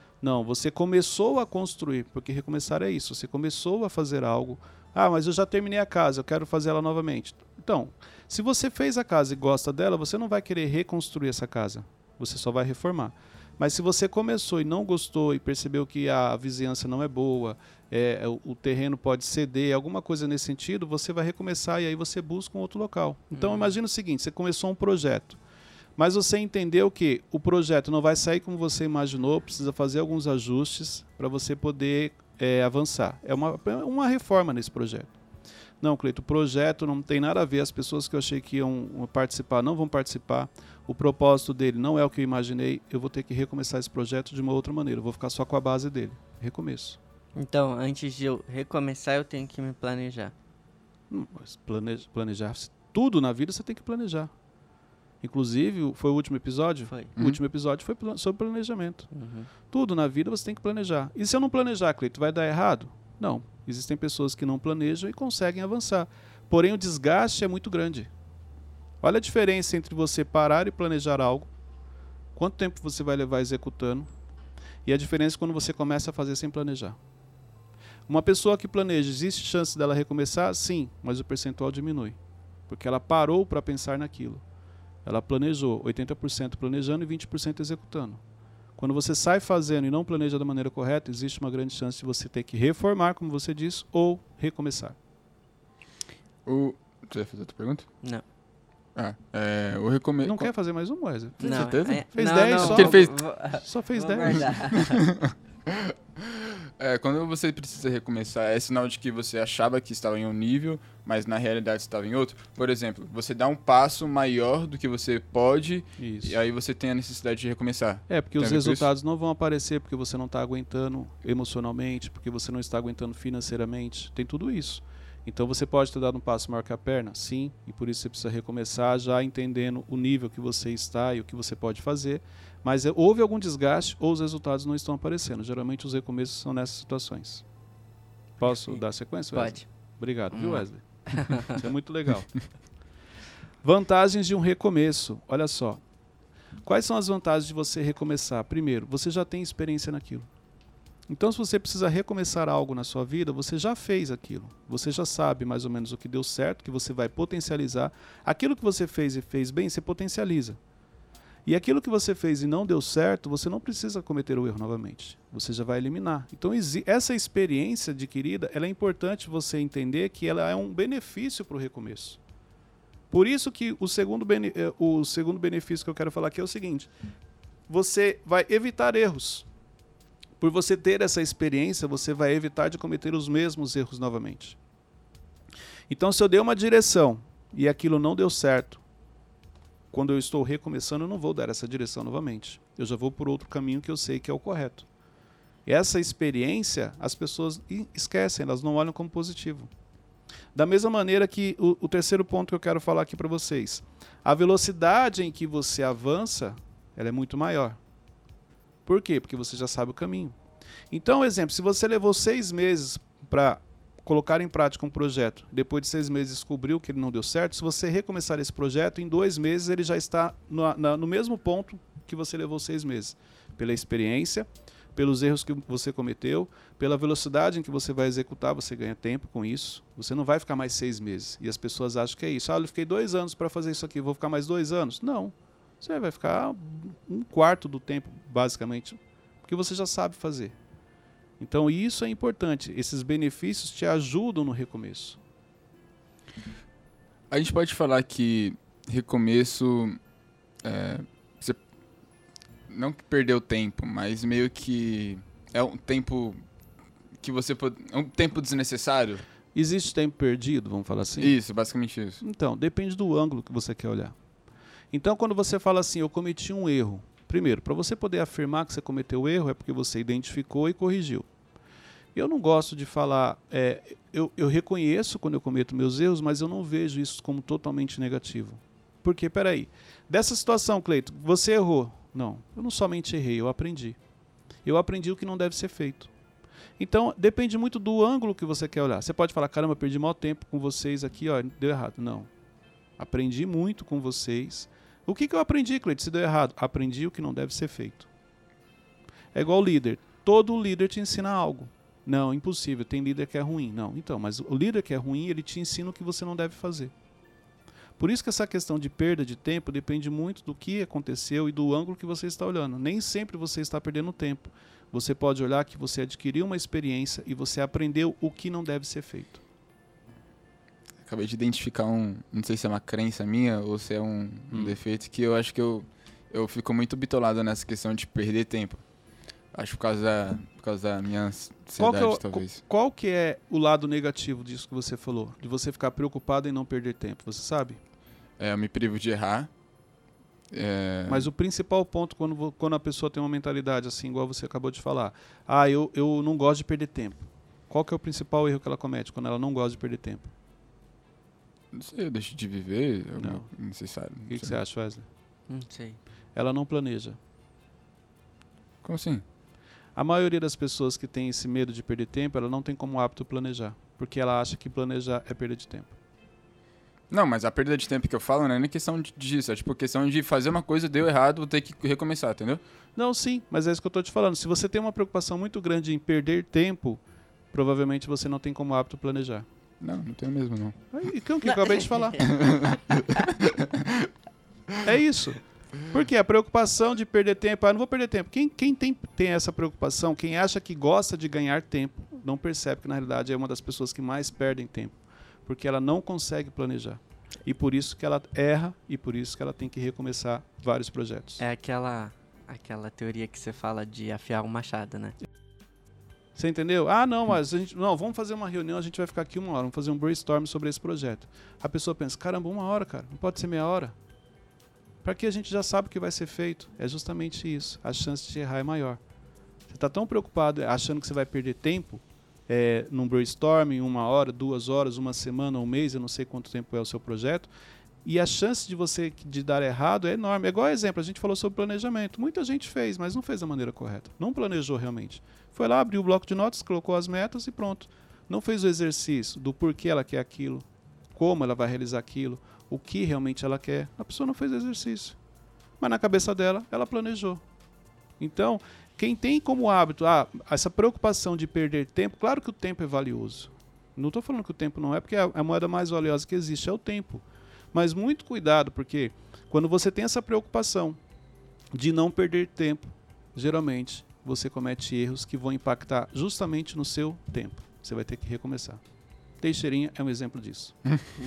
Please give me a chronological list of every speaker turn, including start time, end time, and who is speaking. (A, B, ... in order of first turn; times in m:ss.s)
0:00.2-0:25.4 A
0:23.3-0:23.8 B
0:26.0-0:35.2 A
0:35.8-0:47.0 A
0:47.4-0:50.3 B
0:51.1-0:54.3 A
0:55.2-0:59.1 A
0:59.1-0:59.5 B
0:59.7-1:08.1 A
1:09.0-1:11.5 A
1:12.4-1:14.1 A
1:14.8-1:17.0 A
1:18.1-1:22.2 A
1:22.7-1:24.4 A
1:25.0-1:28.2 A
1:28.8-1:35.0 A
1:36.4-1:37.9 C
1:39.0-1:40.5 C
1:40.2-1:43.1 A
1:41.4-1:43.1 C
1:41.4-1:45.1 B
1:43.6-1:44.6 A
1:44.2-1:58.9 C
1:56.0-1:56.4 A
1:58.1-2:17.4 A
2:18.4-2:22.4 A
2:18.5-2:18.8 B
2:19.3-2:19.7 B
2:20.3-2:21.6 B
2:23.6-2:25.8 A
2:26.6-2:30.3 A
2:31.1-2:40.6 A
2:41.5-2:52.2 A
2:53.1-2:56.9 A
2:57.7-2:59.5 A
3:00.4-3:04.6 A
3:05.9-3:08.8 A
3:09.9-3:14.9 A
3:15.7-3:19.7 A
3:20.6-3:27.8 A
3:28.9-3:30.4 A
3:30.9-4:00.6 A
4:01.4-4:05.2 A
4:07.3-4:10.0 C
4:10.6-4:11.6 C
4:12.7-4:16.4 C
4:17.2-4:19.2 C
4:19.6-4:21.4 A
4:21.2-4:22.2 C
4:22.2-4:24.2 A
4:24.9-4:31.3 A
4:32.2-4:44.0 A
4:44.6-4:46.1 A
4:46.8-4:52.3 A
4:53.0-4:58.1 A
4:59.3-5:06.9 A
5:08.0-5:19.4 A
5:21.0-5:28.8 C
5:24.5-5:24.8 A
5:29.5-5:32.6 C
5:31.8-5:37.8 A
5:38.4-5:39.5 C
5:40.5-5:41.3 C
5:41.1-5:50.3 A
5:51.7-5:54.6 C
5:53.2-5:53.5 A
5:54.3-5:55.1 A
5:55.5-5:56.0 B
5:56.4-5:57.2 A
5:58.8-5:59.2 C
6:00.0-6:06.0 A
6:07.1-6:12.6 C
6:13.0-6:17.0 A
6:17.5-6:19.4 A
6:19.8-6:20.8 C
6:20.9-6:22.4 A
6:21.5-6:22.2 B
6:22.4-6:24.1 C
6:24.8-6:41.4 A
6:41.4-6:45.2 B
6:46.4-6:54.0 A
6:55.0-6:59.0 A
6:59.7-7:07.5 A
7:08.0-7:25.2 A
7:25.8-7:27.4 A
7:28.2-7:41.0 A
7:41.7-7:48.8 A
7:49.4-7:50.8 A